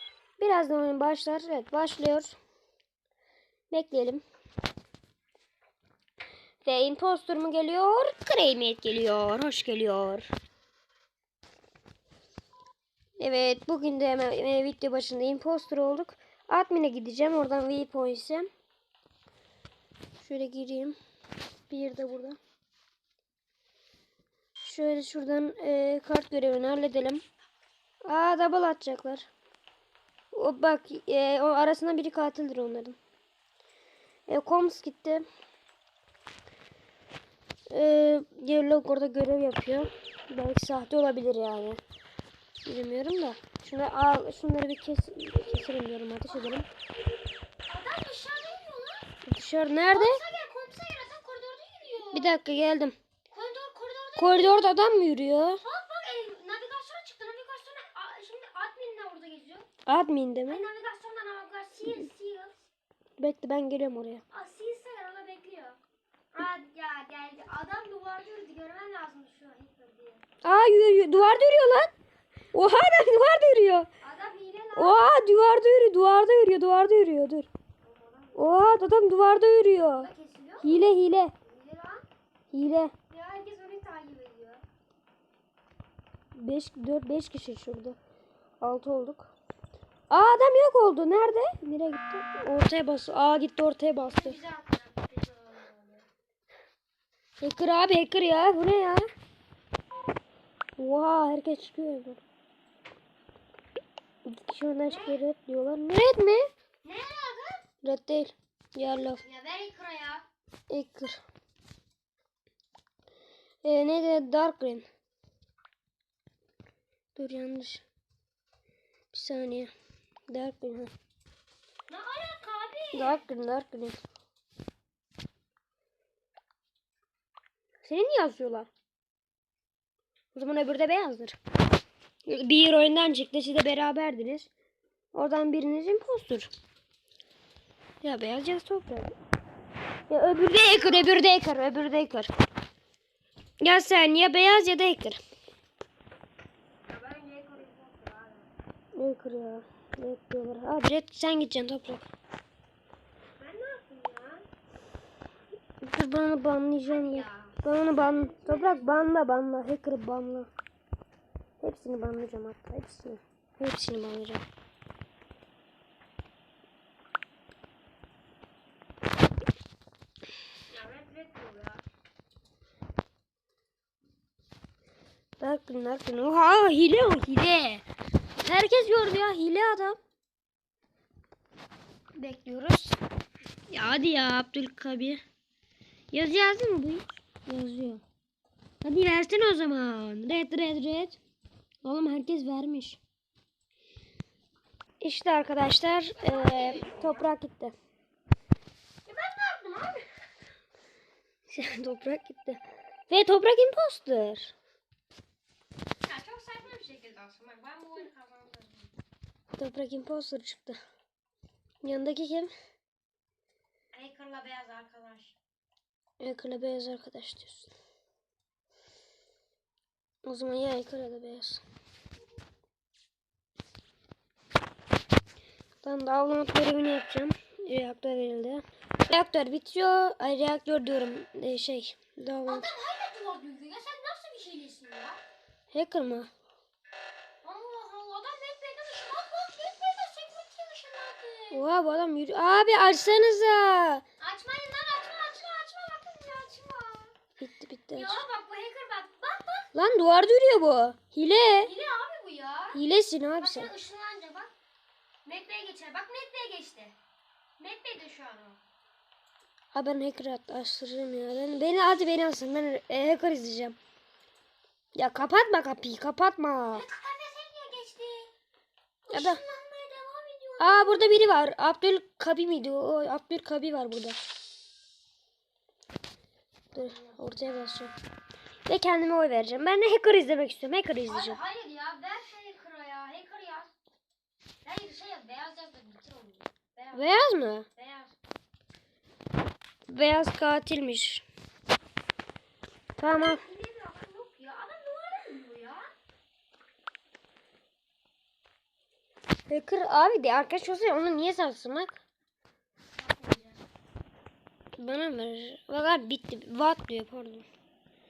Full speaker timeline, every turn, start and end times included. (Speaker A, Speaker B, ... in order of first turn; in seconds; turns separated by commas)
Speaker A: 0.4-2.4, Speaker A: 3.7-4.2, Speaker A: 6.6-10.3, Speaker A: 13.2-18.5, Speaker A: 20.2-21.0, Speaker A: 21.7-22.4, Speaker A: 24.6-27.2, Speaker A: 28.0-29.3, Speaker A: 30.3-33.0, Speaker A: 34.3-35.2, Speaker A: 37.7-41.8, Speaker A: 42.6-46.7, Speaker B: 47.7-49.1, Speaker A: 49.2-50.2, Speaker B: 49.9-52.4, Speaker A: 52.1-53.0, Speaker B: 53.3-54.7, Speaker A: 54.2-55.6, Speaker B: 55.6-59.7, Speaker A: 59.9-60.6, Speaker B: 60.5-62.5, Speaker A: 63.2-64.2, Speaker B: 64.3-65.8, Speaker B: 66.3-70.2, Speaker A: 70.4-71.9, Speaker A: 72.5-73.9, Speaker B: 74.0-75.0, Speaker A: 74.8-77.5, Speaker B: 77.8-78.6, Speaker A: 78.3-80.1, Speaker B: 80.0-80.7, Speaker A: 80.6-81.3, Speaker B: 81.4-82.0, Speaker A: 82.5-82.9, Speaker B: 83.1-84.6, Speaker A: 86.3-88.0, Speaker A: 88.6-89.3, Speaker A: 90.1-94.4, Speaker B: 94.0-96.1, Speaker A: 97.4-99.1, Speaker A: 100.8-102.2, Speaker A: 104.3-106.5, Speaker B: 104.9-105.2, Speaker B: 106.8-107.7, Speaker A: 107.8-109.2, Speaker B: 109.2-110.2, Speaker A: 110.7-111.2, Speaker A: 113.6-114.8, Speaker A: 117.2-117.8, Speaker A: 119.1-119.7, Speaker A: 120.3-120.9, Speaker B: 121.9-123.2, Speaker A: 122.9-124.0, Speaker A: 127.8-128.7, Speaker A: 130.3-131.4, Speaker A: 132.3-134.5, Speaker A: 135.1-136.5, Speaker A: 138.0-139.2, Speaker A: 140.1-142.3, Speaker A: 143.6-145.2, Speaker B: 146.9-148.5, Speaker A: 148.9-152.1, Speaker B: 153.4-154.4, Speaker A: 155.8-160.5, Speaker B: 156.9-158.9, Speaker A: 161.6-164.4, Speaker B: 170.7-171.8, Speaker A: 175.4-177.8, Speaker A: 178.4-180.0, Speaker A: 182.2-183.0, Speaker A: 183.7-185.2, Speaker A: 186.1-188.0, Speaker A: 188.8-191.2, Speaker A: 191.8-193.0, Speaker A: 195.0-197.7, Speaker B: 196.2-197.2, Speaker B: 199.1-200.1, Speaker A: 201.5-204.5, Speaker B: 206.0-208.9, Speaker A: 209.6-210.8, Speaker A: 211.8-212.5, Speaker B: 213.9-215.3, Speaker A: 216.2-217.7, Speaker A: 220.2-221.6, Speaker A: 225.8-232.7, Speaker B: 232.4-235.2, Speaker A: 235.7-236.3, Speaker B: 237.4-241.7, Speaker A: 241.5-244.0, Speaker B: 244.2-247.1, Speaker A: 247.4-248.2, Speaker B: 247.9-249.7, Speaker A: 249.7-251.7, Speaker B: 251.6-252.8, Speaker A: 252.7-253.7, Speaker B: 253.4-254.5, Speaker B: 255.2-256.9, Speaker B: 257.6-258.6, Speaker A: 259.7-263.8, Speaker A: 264.9-266.9, Speaker B: 266.7-268.3, Speaker A: 269.1-269.4, Speaker B: 269.1-271.3, Speaker A: 270.6-274.2, Speaker A: 276.7-277.9, Speaker A: 278.7-281.4, Speaker B: 281.1-283.7, Speaker B: 284.6-287.1, Speaker A: 286.9-287.7, Speaker B: 287.8-288.1, Speaker A: 289.9-291.2, Speaker A: 293.0-293.4, Speaker B: 293.1-295.9, Speaker A: 299.5-302.0, Speaker B: 303.0-303.6, Speaker A: 304.8-307.5